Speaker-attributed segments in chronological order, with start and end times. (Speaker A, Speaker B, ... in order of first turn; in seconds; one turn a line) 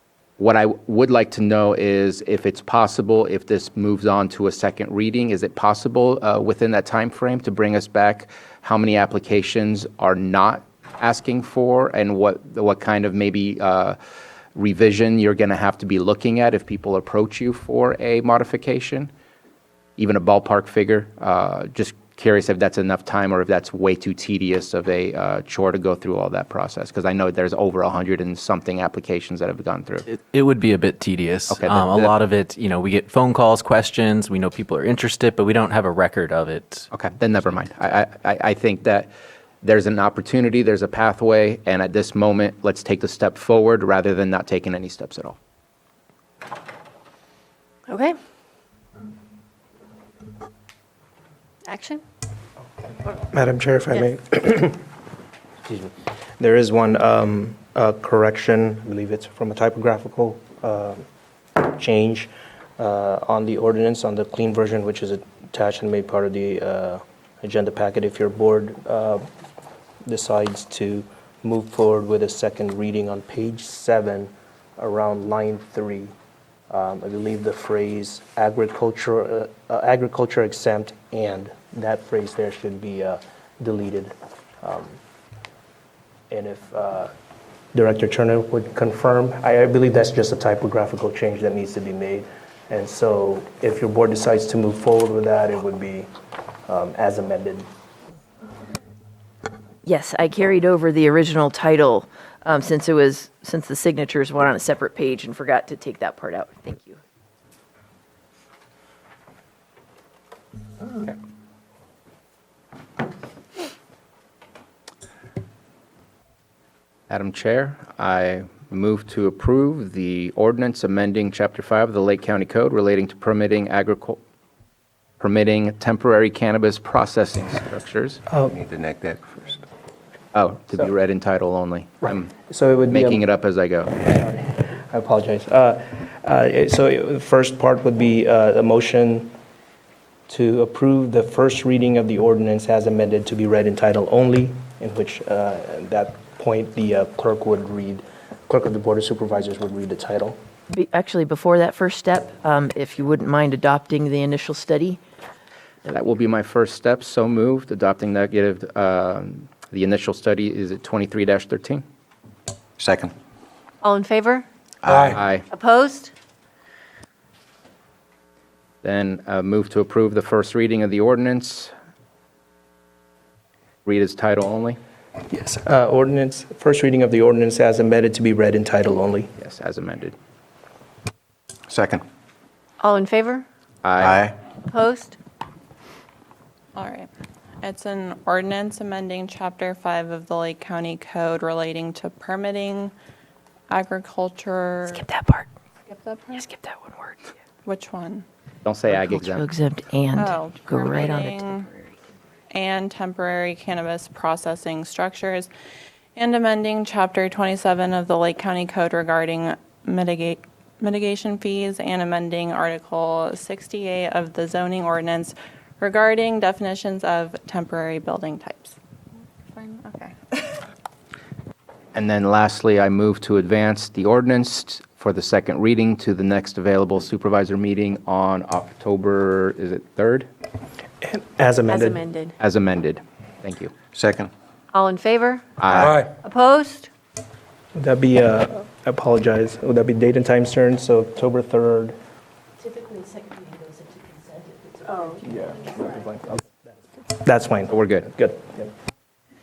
Speaker A: 0.4-14.0
Speaker A: 14.6-19.1
Speaker A: 20.0-30.0
Speaker B: 30.1-36.9
Speaker A: 31.5-32.1
Speaker A: 36.9-39.1
Speaker A: 39.6-45.4
Speaker C: 47.9-48.2
Speaker C: 51.6-52.0
Speaker D: 53.2-54.8
Speaker D: 55.6-61.0
Speaker D: 61.6-69.2
Speaker D: 70.0-76.1
Speaker D: 76.7-85.0
Speaker D: 86.3-87.1
Speaker D: 87.7-96.1
Speaker D: 96.7-97.7
Speaker E: 99.8-107.0
Speaker A: 117.1-124.2
Speaker A: 125.2-128.2
Speaker F: 128.5-129.5
Speaker A: 130.3-132.3
Speaker D: 132.1-133.2
Speaker A: 132.9-134.1
Speaker D: 134.0-139.3
Speaker D: 140.3-150.4
Speaker E: 150.7-155.0
Speaker A: 155.8-161.8
Speaker F: 162.8-163.1
Speaker C: 163.8-164.4
Speaker F: 164.8-165.2
Speaker A: 165.1-165.4
Speaker C: 165.4-166.1
Speaker A: 168.8-171.7
Speaker A: 173.8-174.8
Speaker D: 175.3-179.3
Speaker A: 179.4-180.1
Speaker F: 181.7-182.0
Speaker C: 182.8-183.4
Speaker A: 183.8-184.2
Speaker F: 184.0-184.4
Speaker C: 184.7-185.2
Speaker G: 186.8-187.1
Speaker G: 187.6-192.9
Speaker G: 193.7-195.0
Speaker E: 194.9-195.5
Speaker G: 195.9-196.5
Speaker E: 196.3-197.2
Speaker G: 197.6-198.2
Speaker A: 198.6-199.5
Speaker E: 198.9-201.6
Speaker G: 200.1-201.7
Speaker G: 202.5-205.5
Speaker G: 206.2-218.8
Speaker G: 219.5-220.5
Speaker A: 221.9-230.3
Speaker D: 231.0-232.0
Speaker C: 231.7-232.3
Speaker A: 232.4-233.7
Speaker F: 233.9-234.3
Speaker C: 234.7-236.9
Speaker A: 235.6-236.0
Speaker F: 235.7-236.1
Speaker D: 237.7-241.9
Speaker E: 242.7-245.5
Speaker C: 244.9-245.2
Speaker D: 245.2-246.6
Speaker D: 247.1-248.7
Speaker A: 247.7-248.1